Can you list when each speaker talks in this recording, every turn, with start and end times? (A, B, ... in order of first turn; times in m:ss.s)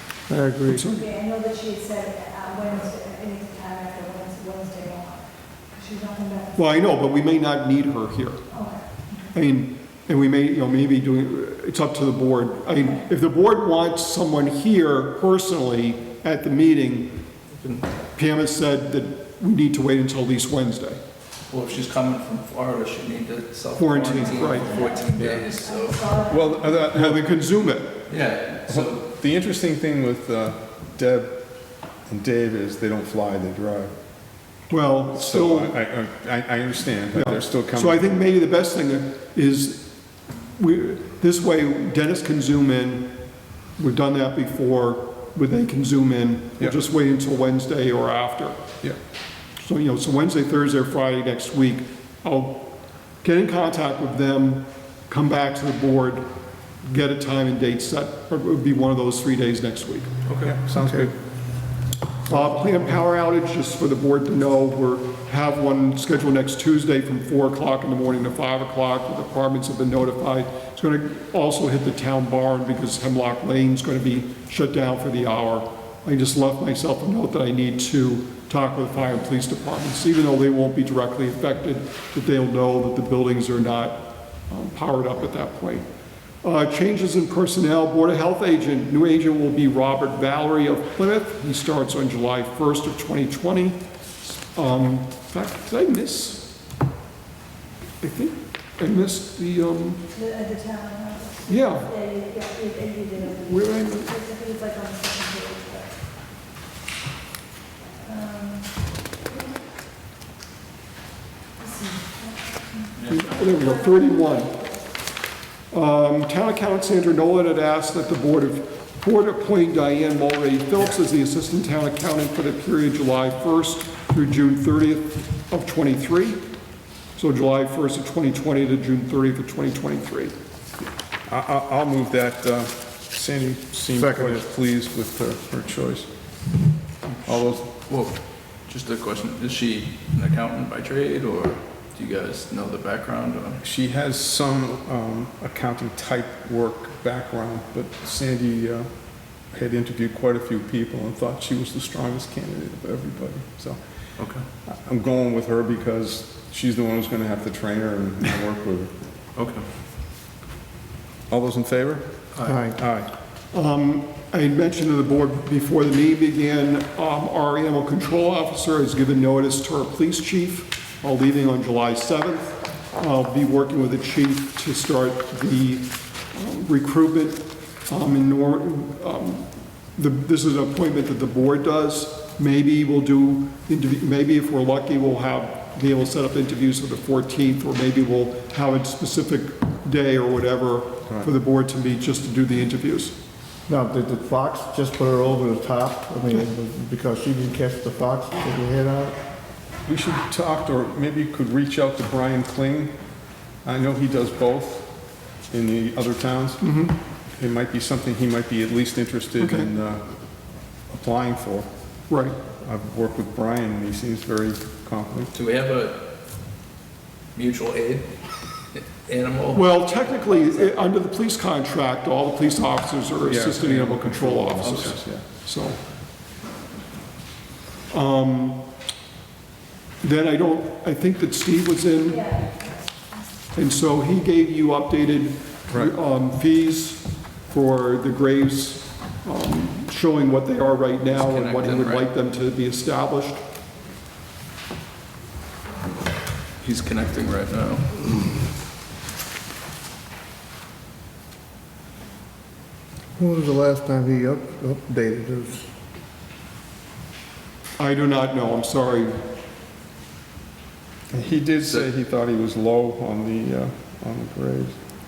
0:00.3-0:00.9 A
0:00.7-0:01.1 B
0:00.9-0:07.0 C
0:06.6-0:08.4 B
0:08.5-0:09.3 C
0:09.3-0:17.1 B
0:17.5-0:17.9 D
0:18.1-0:21.0 B
0:21.5-0:26.0 D
0:23.8-0:24.7 B
0:24.2-0:26.9 C
0:26.3-0:27.3 E
0:26.9-0:27.9 B
0:28.1-0:29.0 D
0:28.7-0:31.4 E
0:32.1-0:33.9 E
0:34.7-0:35.8 B
0:35.1-0:38.1 E
0:37.1-0:39.9 B
0:40.6-0:43.1 B
0:43.8-0:48.6 B
0:49.6-0:52.6 B
0:53.2-0:56.2 B
0:56.8-1:00.1 B
1:00.3-1:00.5 D
1:00.4-1:01.1 E
1:00.7-1:01.1 A
1:02.3-1:25.9 B
1:26.4-1:36.5 B
1:38.0-1:40.0 B
1:40.1-1:45.9 C
1:41.5-1:41.9 B
1:43.3-1:44.2 B
1:48.0-1:48.7 C
1:51.6-1:54.8 C
1:53.1-1:54.5 B
1:55.7-2:06.4 B
2:07.2-2:10.3 B
2:11.3-2:16.1 E
2:14.0-2:14.4 A
2:17.1-2:23.6 D
2:17.2-2:17.7 E
2:23.6-2:28.9 E
2:29.5-2:33.8 E
2:34.2-2:34.4 D
2:34.6-2:38.9 E
2:39.4-2:39.7 D
2:41.3-2:42.1 E
2:42.4-2:42.8 A
2:42.7-2:43.1 E
2:43.5-3:13.2 B
3:13.7-3:19.2 A
3:19.8-3:22.9 E
3:23.6-3:24.9 E
3:25.5-3:30.2 E
3:26.6-3:26.9 B
3:29.4-3:29.7 B
3:30.9-3:31.7 E
3:32.1-3:32.4 B
3:32.6-3:35.3 E
3:35.3-3:36.1 D
3:37.3-3:38.1 D
3:38.7-3:40.7 D
3:39.5-3:45.8 B
3:43.2-3:45.2 E
3:44.6-3:44.9 D
3:47.9-3:48.6 B
3:50.0-3:52.3 B
3:52.1-3:53.2 C
3:53.5-4:03.4 B
4:01.1-4:02.1 D
4:06.6-4:07.9 D
4:13.2-4:15.7 A
4:17.8-4:19.2 B
4:21.1-4:24.8 E